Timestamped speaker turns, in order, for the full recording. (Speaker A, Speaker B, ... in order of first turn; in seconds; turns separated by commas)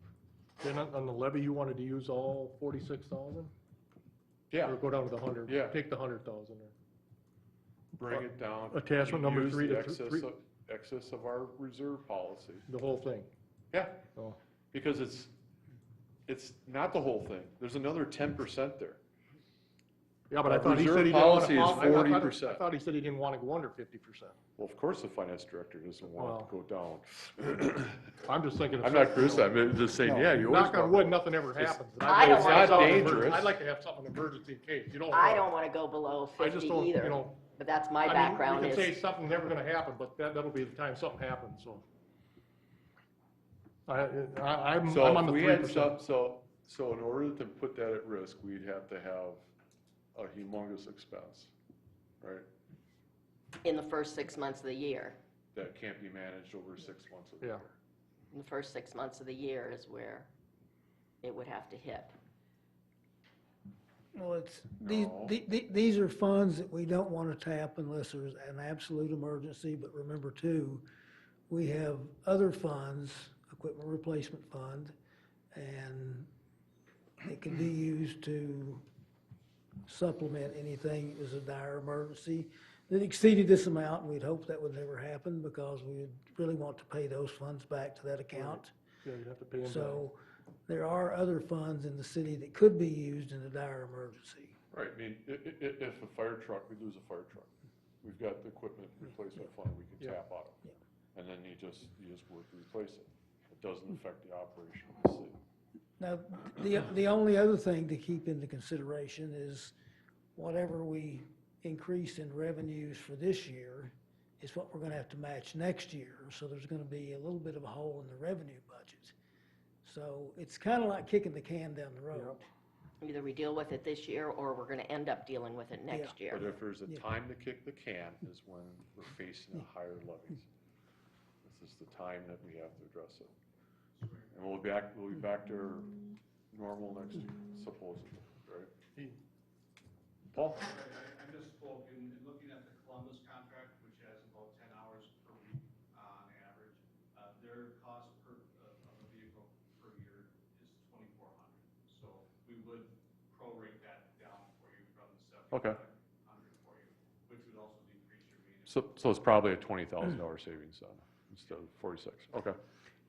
Speaker A: 0.6-3.5, Speaker B: 4.5-4.8, Speaker A: 4.6-6.7, Speaker B: 5.5-5.8, Speaker B: 8.0-12.7, Speaker A: 8.1-10.3, Speaker A: 12.7-13.3, Speaker B: 13.7-14.0, Speaker B: 14.7-15.3, Speaker B: 16.3-19.0, Speaker A: 20.3-24.4, Speaker B: 20.4-22.6, Speaker B: 24.6-28.1, Speaker A: 26.1-26.5, Speaker A: 28.2-35.5, Speaker B: 28.8-33.5, Speaker C: 32.0-33.2, Speaker C: 35.1-39.0, Speaker A: 36.4-37.4, Speaker A: 38.0-41.9, Speaker A: 43.9-46.0, Speaker B: 44.9-49.4, Speaker B: 50.1-51.5, Speaker C: 53.6-55.2, Speaker B: 55.5-57.8, Speaker C: 58.3-60.3, Speaker C: 61.2-62.1, Speaker D: 64.1-70.8, Speaker B: 64.8-65.4, Speaker D: 71.5-74.9, Speaker D: 75.5-76.3, Speaker D: 77.2-78.8, Speaker D: 79.9-88.7, Speaker A: 88.3-90.0, Speaker D: 89.6-94.6, Speaker B: 94.7-97.5, Speaker B: 98.0-100.6, Speaker B: 101.2-105.4, Speaker D: 106.0-109.7, Speaker D: 110.4-119.1, Speaker D: 119.8-122.4, Speaker C: 123.0-126.5, Speaker B: 126.3-130.5, Speaker B: 131.4-133.3, Speaker E: 134.0-134.3, Speaker B: 134.3-136.0, Speaker B: 136.5-138.7, Speaker B: 140.3-140.7, Speaker E: 140.5-158.9, Speaker B: 155.5-155.8, Speaker B: 158.7-162.6